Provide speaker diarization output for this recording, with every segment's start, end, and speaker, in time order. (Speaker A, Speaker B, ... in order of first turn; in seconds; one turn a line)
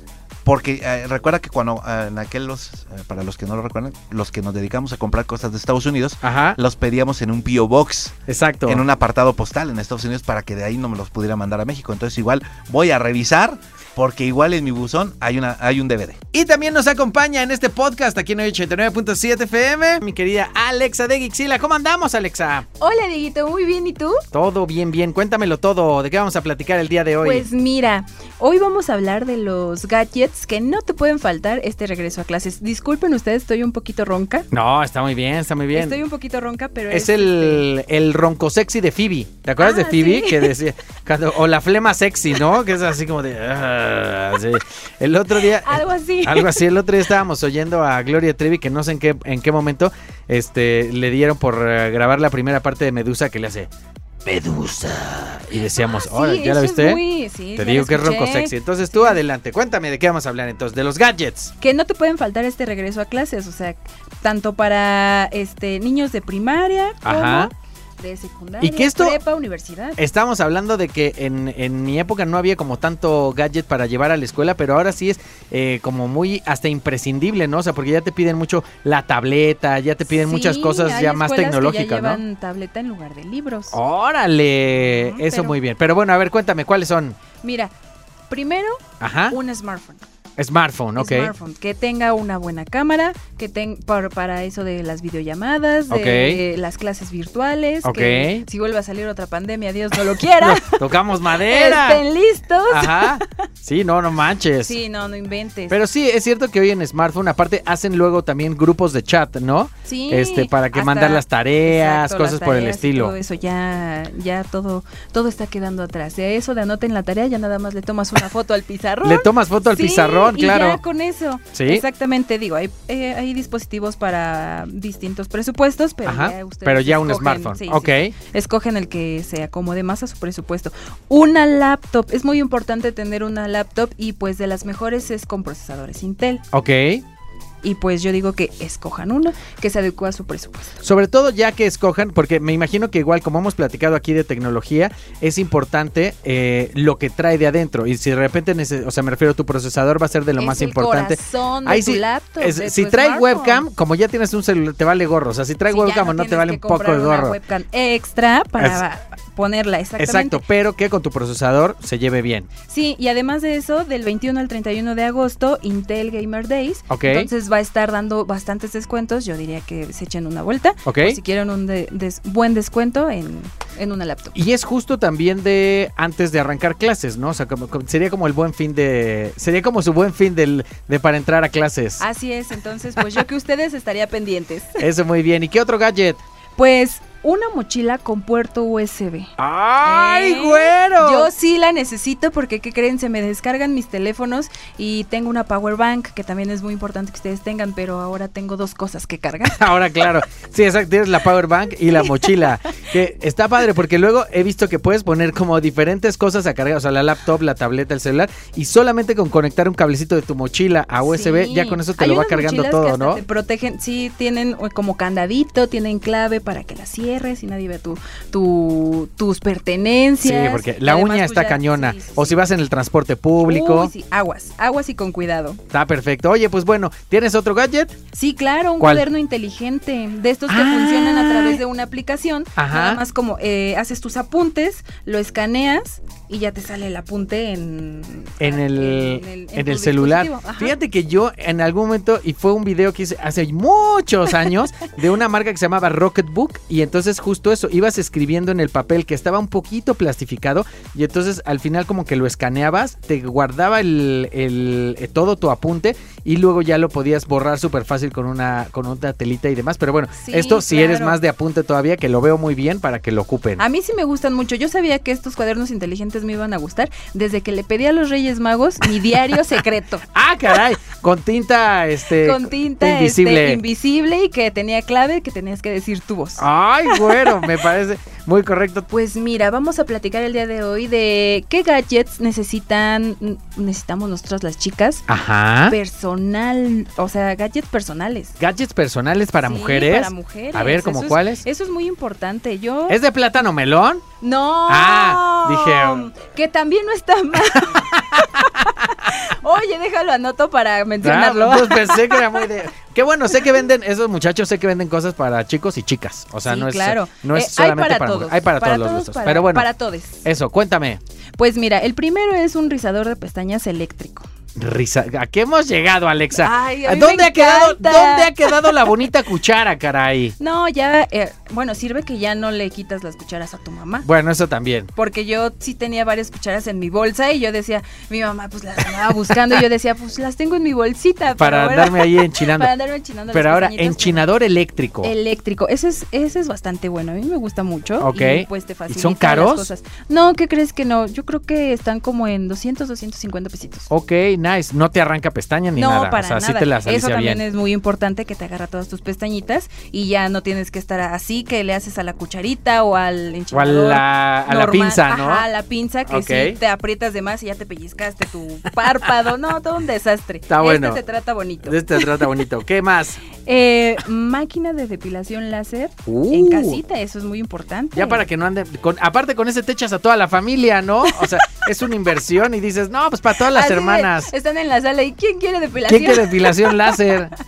Speaker A: 0.5-8.1
Speaker B: 6.2-6.6
Speaker B: 8.3-8.8
Speaker A: 8.7-16.2
Speaker B: 16.3-22.7
Speaker C: 22.8-24.2
Speaker B: 24.3-27.5
Speaker C: 27.2-34.5
Speaker B: 34.5-36.0
Speaker C: 35.7-37.7
Speaker B: 36.9-53.7
Speaker C: 39.6-40.6
Speaker C: 45.4-46.6
Speaker B: 54.2-57.0
Speaker C: 55.8-59.2
Speaker B: 57.6-61.5
Speaker C: 61.6-70.0
Speaker B: 67.0-67.5
Speaker B: 68.6-69.2
Speaker B: 70.0-82.2
Speaker C: 80.1-83.8
Speaker B: 83.7-87.2
Speaker C: 84.8-85.6
Speaker C: 87.4-87.7
Speaker C: 88.3-90.0
Speaker B: 89.0-89.4
Speaker B: 90.4-91.3
Speaker C: 91.0-103.3
Speaker B: 95.9-96.4
Speaker B: 97.8-98.5
Speaker B: 100.4-102.0
Speaker B: 102.7-104.8
Speaker C: 104.6-105.8
Speaker B: 105.7-113.2
Speaker C: 109.9-136.4
Speaker B: 119.0-120.8
Speaker B: 121.5-121.8
Speaker B: 126.0-128.1
Speaker B: 136.5-137.0
Speaker C: 137.6-140.7
Speaker B: 140.8-157.4
Speaker C: 150.4-153.7
Speaker C: 155.7-160.4
Speaker B: 158.6-158.8
Speaker B: 160.0-162.5
Speaker C: 162.7-174.3
Speaker B: 166.9-167.3
Speaker B: 170.8-171.2
Speaker B: 174.3-182.0
Speaker C: 182.0-184.8
Speaker B: 184.8-186.2
Speaker C: 186.6-189.3
Speaker B: 189.4-191.3
Speaker C: 189.8-199.7
Speaker B: 199.4-213.2
Speaker C: 201.9-202.5
Speaker C: 211.0-222.4
Speaker B: 220.2-223.9
Speaker C: 223.4-225.6
Speaker B: 225.7-227.9
Speaker C: 228.1-240.8
Speaker B: 228.8-229.1
Speaker B: 230.5-231.6
Speaker B: 232.6-233.0
Speaker B: 238.4-263.6
Speaker C: 260.1-261.2
Speaker C: 263.6-270.1
Speaker B: 270.1-273.6
Speaker C: 272.1-277.5
Speaker B: 276.4-278.9
Speaker C: 278.9-285.0
Speaker B: 285.1-285.8
Speaker C: 285.7-288.3
Speaker B: 288.4-291.4
Speaker C: 289.4-293.0
Speaker B: 292.9-294.0
Speaker C: 294.2-302.5
Speaker B: 294.7-296.1
Speaker B: 297.6-298.6
Speaker B: 301.0-309.7
Speaker C: 306.4-310.3
Speaker B: 310.2-311.0
Speaker C: 311.4-314.3
Speaker B: 314.6-320.4
Speaker C: 316.4-319.0
Speaker C: 320.4-324.1
Speaker B: 324.0-324.9
Speaker C: 324.9-334.3
Speaker B: 331.4-332.7
Speaker B: 333.3-335.1
Speaker C: 335.0-343.9
Speaker B: 338.0-339.7
Speaker B: 343.9-347.4
Speaker C: 345.8-362.3
Speaker B: 353.5-355.4
Speaker B: 356.1-356.6
Speaker B: 360.5-361.0
Speaker B: 361.6-363.2
Speaker C: 363.4-368.3
Speaker B: 366.1-366.8
Speaker B: 367.9-374.3
Speaker C: 371.1-371.5
Speaker C: 373.4-377.3
Speaker B: 375.9-377.3